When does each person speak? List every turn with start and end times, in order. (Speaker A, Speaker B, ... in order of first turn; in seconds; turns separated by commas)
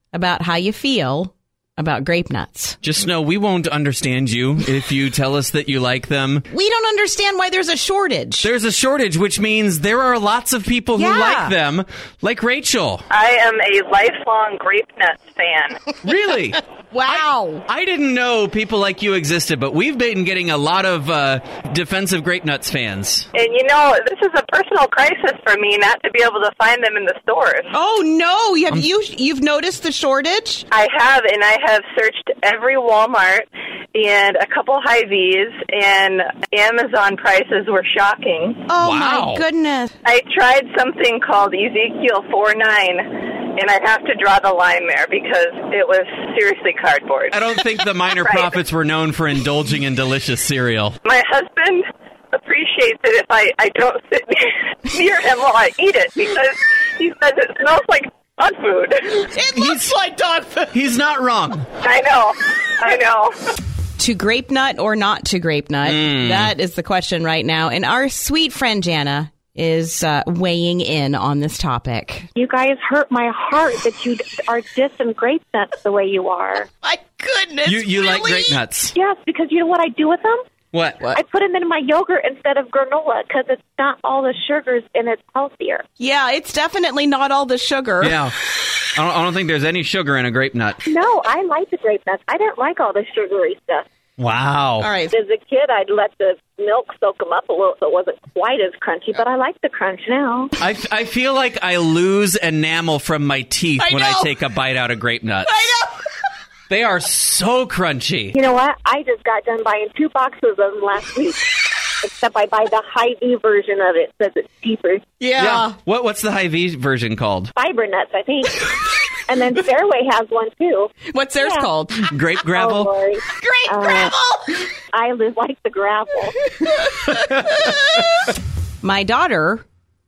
Speaker A: 0.1-2.8, Speaker B: 2.8-6.4, Speaker A: 6.5-8.5, Speaker B: 8.4-13.1, Speaker A: 10.9-11.5, Speaker C: 13.1-15.8, Speaker B: 16.0-23.3, Speaker A: 16.9-17.6, Speaker C: 23.3-27.7, Speaker A: 27.7-30.6, Speaker C: 30.7-38.6, Speaker A: 38.7-39.9, Speaker B: 38.8-39.4, Speaker C: 40.0-48.5, Speaker B: 47.3-51.0, Speaker C: 51.0-59.3, Speaker A: 59.2-60.7, Speaker B: 59.5-59.9, Speaker B: 60.7-61.7, Speaker C: 61.8-63.3, Speaker A: 64.0-72.3, Speaker B: 65.8-66.5, Speaker D: 72.3-76.7, Speaker A: 76.8-78.6, Speaker B: 77.6-78.9, Speaker D: 78.9-80.4, Speaker B: 80.7-81.1, Speaker D: 81.1-85.8, Speaker A: 86.0-88.2, Speaker B: 88.0-88.3, Speaker B: 88.9-90.8, Speaker D: 90.8-93.9, Speaker B: 94.2-94.9, Speaker A: 94.8-95.2, Speaker D: 95.1-100.5, Speaker B: 100.6-105.6, Speaker A: 103.8-104.3, Speaker A: 105.4-106.0, Speaker B: 106.7-108.4, Speaker D: 108.3-115.1, Speaker A: 115.2-115.8, Speaker B: 115.3-117.5, Speaker D: 117.5-121.7, Speaker A: 121.1-122.1, Speaker B: 122.0-122.9, Speaker D: 122.4-124.1, Speaker A: 123.4-124.6, Speaker D: 124.9-126.3, Speaker B: 127.2-127.6, Speaker A: 127.6-128.0, Speaker A: 128.8-129.7